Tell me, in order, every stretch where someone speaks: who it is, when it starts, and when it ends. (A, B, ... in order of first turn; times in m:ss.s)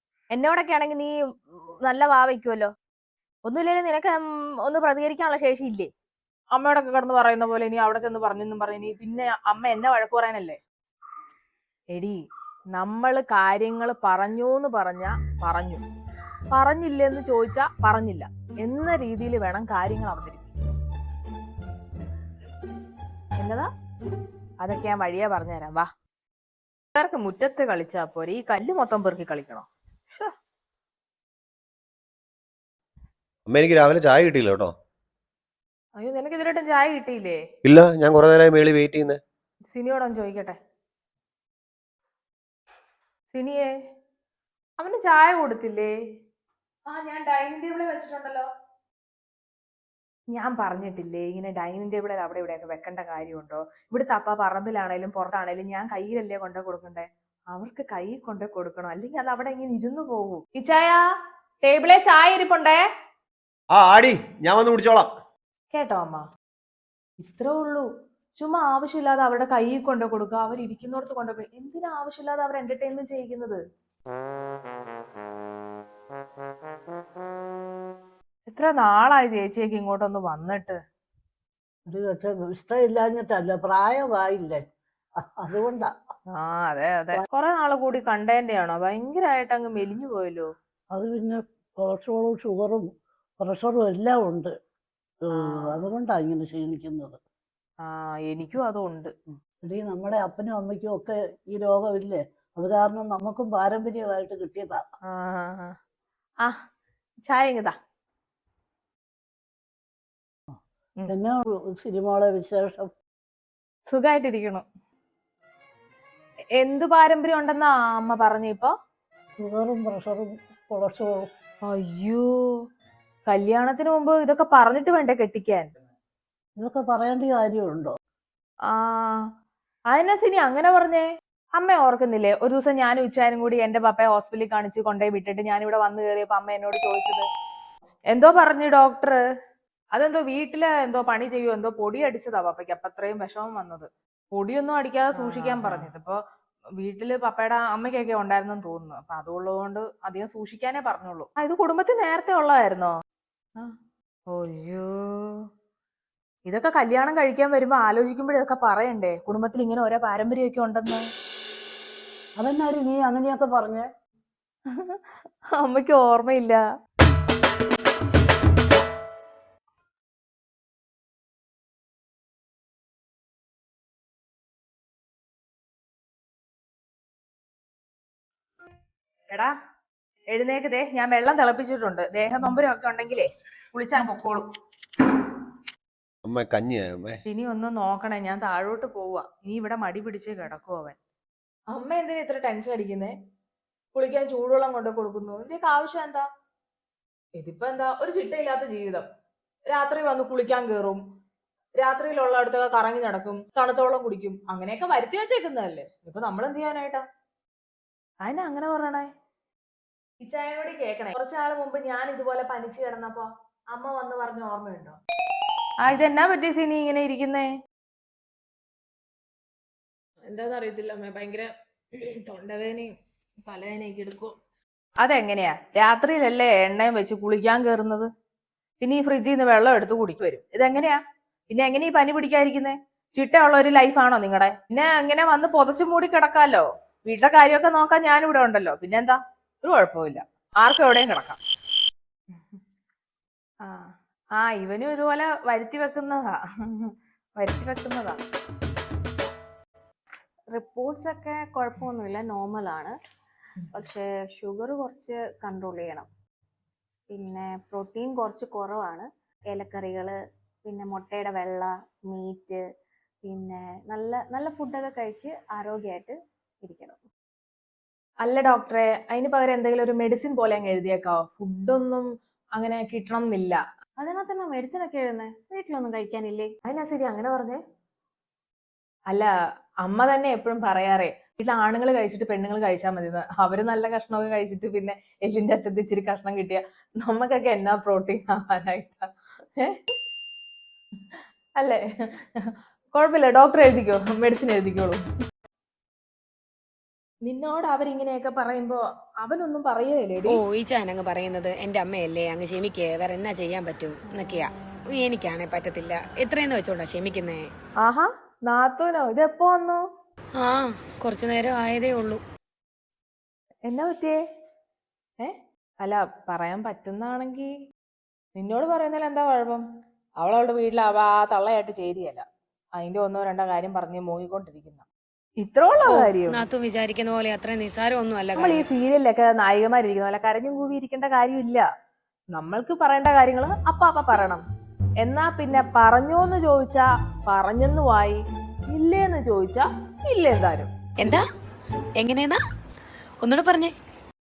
0:00.3-0:02.7 A
0:03.5-0:05.9 A
0:06.5-0:10.6 A
0:11.9-0:12.2 A
0:12.7-0:15.8 A
0:16.5-0:20.5 A
0:23.4-0:23.7 A
0:24.6-0:25.9 A
0:26.9-0:30.3 A
0:33.5-0:34.7 B
0:36.0-0:37.4 A
0:37.6-0:39.2 B
0:39.7-0:40.6 A
0:43.3-0:43.7 A
0:44.8-0:46.0 A
0:46.9-0:48.5 A
0:50.3-1:01.0 A
1:01.6-1:02.8 A
1:03.7-1:05.1 B
1:05.7-1:06.2 A
1:07.2-1:07.9 A
1:08.4-1:13.6 A
1:18.5-1:20.8 A
1:21.9-1:24.6 C
1:25.2-1:25.9 C
1:26.3-1:30.5 A
1:30.9-1:32.8 C
1:33.4-1:34.5 C
1:35.2-1:37.2 C
1:35.3-1:35.7 A
1:37.8-1:39.1 A
1:39.6-1:44.8 C
1:45.1-1:45.7 A
1:47.2-1:47.7 A
1:51.1-1:52.9 C
1:53.9-1:54.6 A
1:56.6-1:58.7 A
1:59.4-2:01.2 C
2:01.7-2:02.5 A
2:03.3-2:05.7 A
2:06.6-2:07.9 C
2:08.7-2:09.2 A
2:09.9-2:11.0 A
2:11.6-2:17.2 A
2:18.1-2:19.2 A
2:19.9-2:26.2 A
2:26.8-2:32.9 A
2:34.3-2:35.5 A
2:36.4-2:41.0 A
2:42.4-2:43.8 C
2:44.7-2:45.0 A
2:45.6-2:46.6 A
3:00.3-3:04.5 A
3:06.2-3:07.2 B
3:07.3-3:11.0 A
3:11.7-3:13.1 A
3:13.9-3:16.3 A
3:17.4-3:19.0 A
3:19.7-3:21.0 A
3:21.8-3:27.0 A
3:28.2-3:29.1 A
3:30.2-3:35.0 A
3:35.8-3:37.5 A
3:40.3-3:42.9 A
3:43.4-3:44.3 A
3:45.0-3:48.1 A
3:48.8-4:01.4 A
4:02.3-4:02.6 A
4:03.6-4:08.2 A
4:10.5-4:13.0 D
4:13.7-4:16.1 D
4:17.1-4:22.6 D
4:23.2-4:27.0 D
4:28.2-4:33.6 A
4:34.0-4:36.5 D
4:36.6-4:37.6 A
4:39.8-4:49.8 A
4:51.1-4:55.0 A
4:57.2-5:00.4 A
5:00.3-5:07.5 E
5:07.8-5:09.8 A
5:10.4-5:12.2 E
5:13.6-5:14.2 A
5:15.2-5:17.5 A
5:18.4-5:19.6 A
5:20.2-5:22.2 A
5:22.8-5:24.8 A
5:25.4-5:26.4 A
5:25.8-5:28.6 E
5:28.4-5:31.7 A
5:32.3-5:34.4 A
5:35.0-5:40.7 A
5:41.0-5:41.2 E
5:42.0-5:42.4 E
5:43.2-5:43.7 E